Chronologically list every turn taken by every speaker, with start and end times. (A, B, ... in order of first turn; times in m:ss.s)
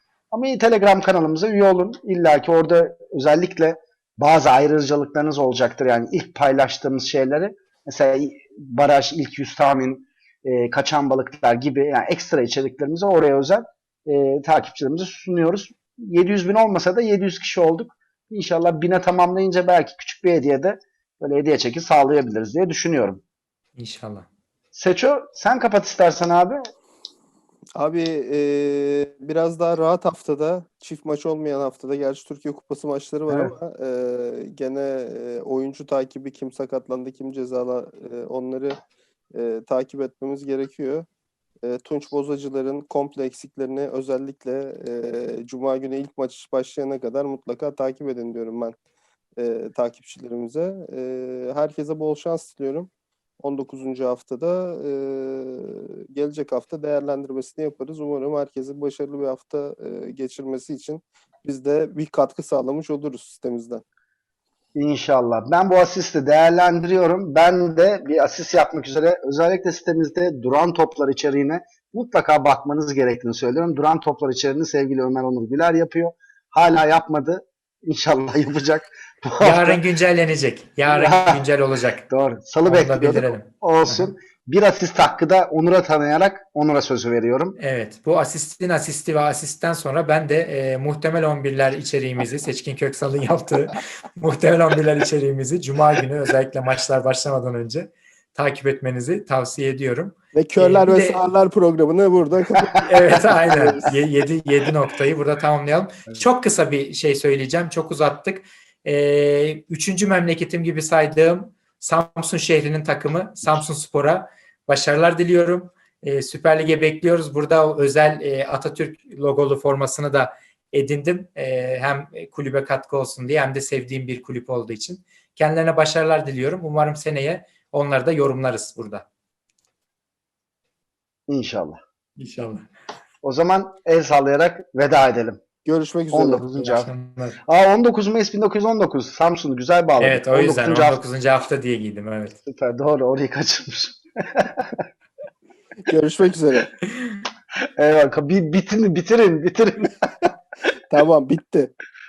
0:00.3-0:23.2 A
0:23.8-0:24.3 B
0:24.7-0:26.6 A
0:27.8-0:38.8 C
0:33.3-0:33.5 A
0:39.3-0:41.1 C
0:41.6-0:48.8 C
0:49.4-0:52.9 C
0:53.4-1:03.8 C
1:04.8-1:19.8 A
1:19.4-1:22.0 B
1:20.9-1:21.4 A
1:22.1-1:27.6 A
1:22.7-1:24.1 B
1:27.6-1:41.2 B
1:40.3-1:43.6 C
1:42.8-2:09.1 B
2:11.3-2:11.8 A
2:12.2-2:12.7 B
2:13.2-2:15.4 A
2:15.6-2:16.5 C
2:16.1-2:16.9 A
2:16.6-2:17.4 B
2:17.5-2:21.0 A
2:20.0-2:22.4 B
2:22.4-2:24.8 A
2:25.9-2:26.7 C
2:27.8-2:30.1 A
2:30.9-2:31.7 C